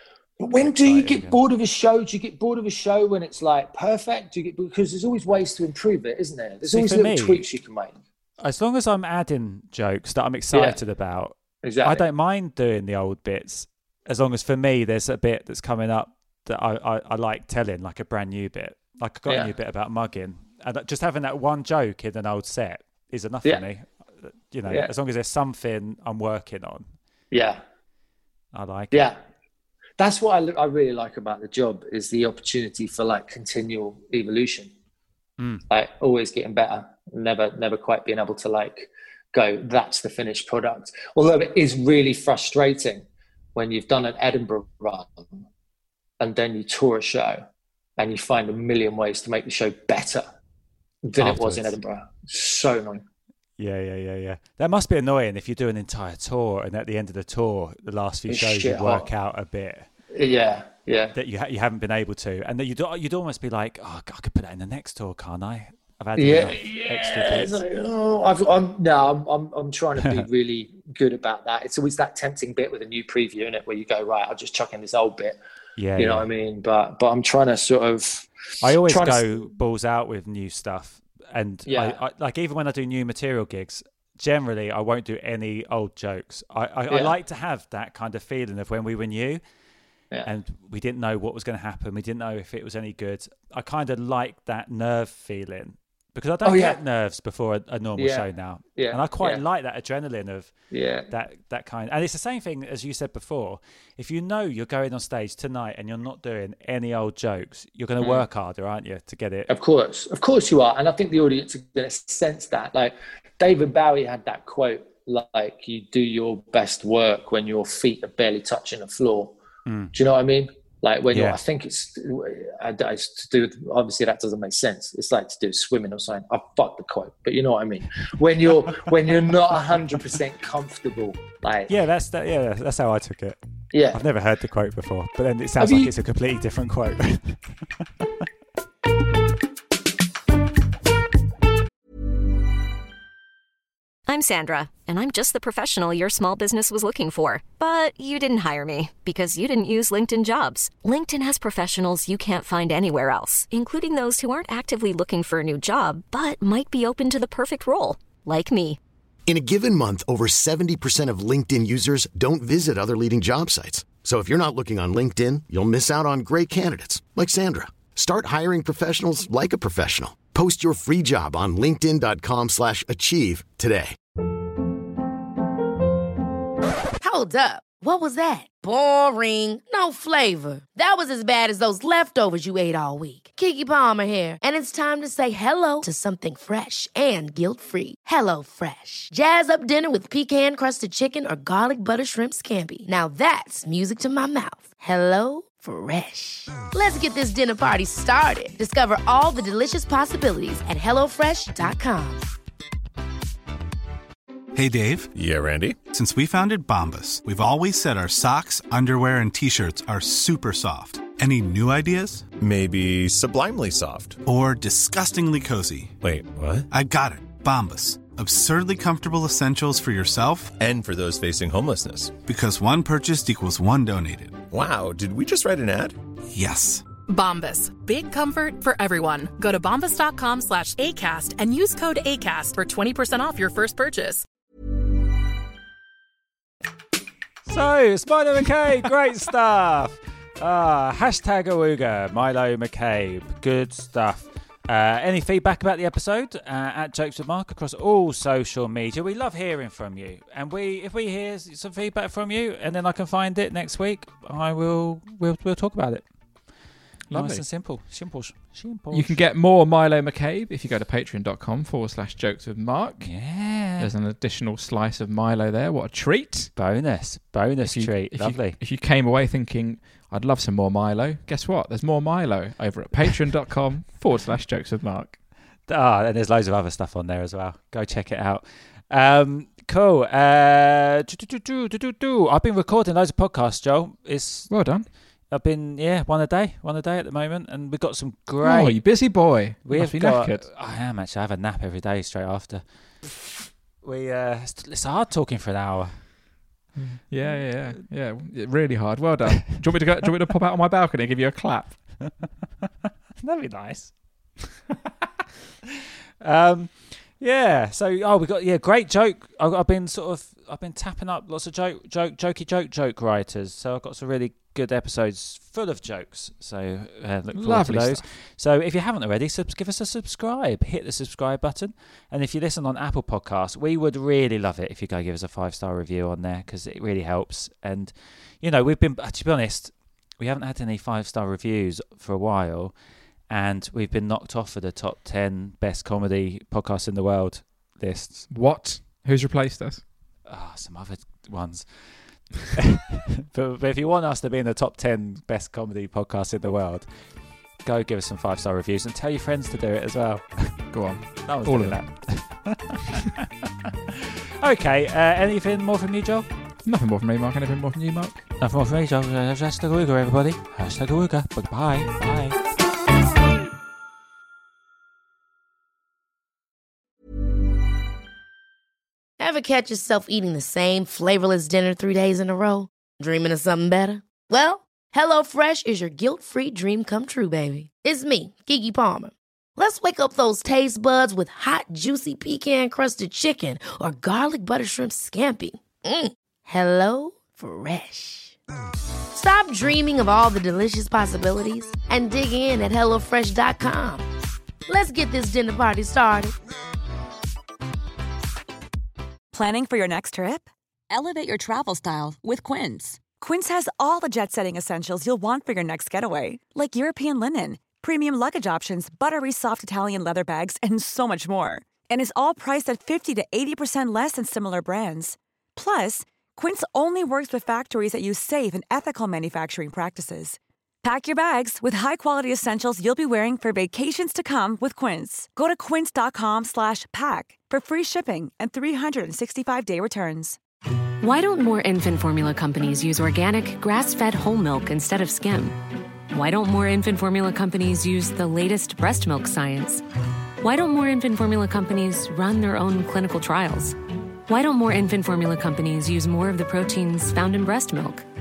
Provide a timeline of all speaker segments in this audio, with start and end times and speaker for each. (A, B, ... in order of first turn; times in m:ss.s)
0:00.4-0:07.9 A
0:00.6-0:01.4 B
0:06.7-0:07.4 B
0:08.4-0:26.9 B
0:10.5-0:10.8 A
0:11.6-0:12.0 A
0:27.3-0:27.6 A
0:28.5-0:29.1 B
0:30.0-0:34.7 A
0:35.4-0:35.6 B
0:35.7-0:45.4 A
0:46.2-0:47.4 A
0:48.0-0:50.2 A
0:51.0-0:53.0 A
0:51.2-0:51.8 B
0:53.6-0:59.9 B
0:58.3-0:59.1 A
1:00.1-1:01.1 A
1:01.1-1:07.6 B
1:06.2-1:15.4 A
1:15.8-1:16.3 B
1:16.0-1:19.2 A
1:18.6-1:29.4 B
1:21.7-1:22.0 A
1:30.2-1:40.5 B
1:36.4-1:36.8 A
1:38.0-1:39.4 A
1:40.7-1:41.1 A
1:41.1-1:49.5 B
1:49.5-1:59.3 A
1:59.6-1:59.9 B
1:59.9-2:11.7 A
2:01.1-2:01.4 B
2:11.7-2:13.4 B
2:13.7-2:14.0 A
2:13.9-2:17.6 B
2:15.6-2:15.9 A
2:24.1-2:38.8 C
2:39.2-2:54.0 D
2:57.0-3:22.2 E
3:24.5-3:25.1 F
3:25.1-3:25.8 G
3:25.8-3:32.3 F
3:32.4-3:34.2 G
3:34.2-3:35.9 F
3:36.0-3:36.6 G
3:36.7-3:40.5 F
3:40.6-3:42.2 G
3:42.2-3:44.4 F
3:44.5-3:45.9 G
3:46.3-3:46.8 F
3:47.1-3:54.2 H
3:57.5-4:16.5 B
4:17.1-4:17.4 I
4:17.1-4:19.2 B
4:18.9-4:23.2 I
4:23.0-4:23.9 B
4:23.7-4:26.5 I
4:26.6-4:28.6 B
4:27.6-4:35.2 I
4:35.7-4:44.7 B
4:44.5-4:44.9 I
4:45.3-4:52.6 B
4:48.4-4:50.5 I
4:53.8-4:56.1 B
4:56.8-5:02.0 I
4:57.2-4:57.8 B
5:03.2-5:03.9 B
5:06.2-5:32.7 B
5:17.3-5:18.0 I
5:33.3-5:38.3 B
5:38.3-5:39.8 I
5:40.2-5:53.1 B
5:50.7-5:52.3 I
5:53.9-5:56.3 B
5:56.6-5:58.2 I
5:58.4-6:02.4 B
6:09.2-6:28.4 E
6:29.1-6:34.0 E
6:34.7-6:36.4 E
6:39.3-7:10.4 J
7:11.0-7:15.6 K
7:16.1-7:19.8 K
7:20.4-7:23.7 K
7:24.3-7:28.0 K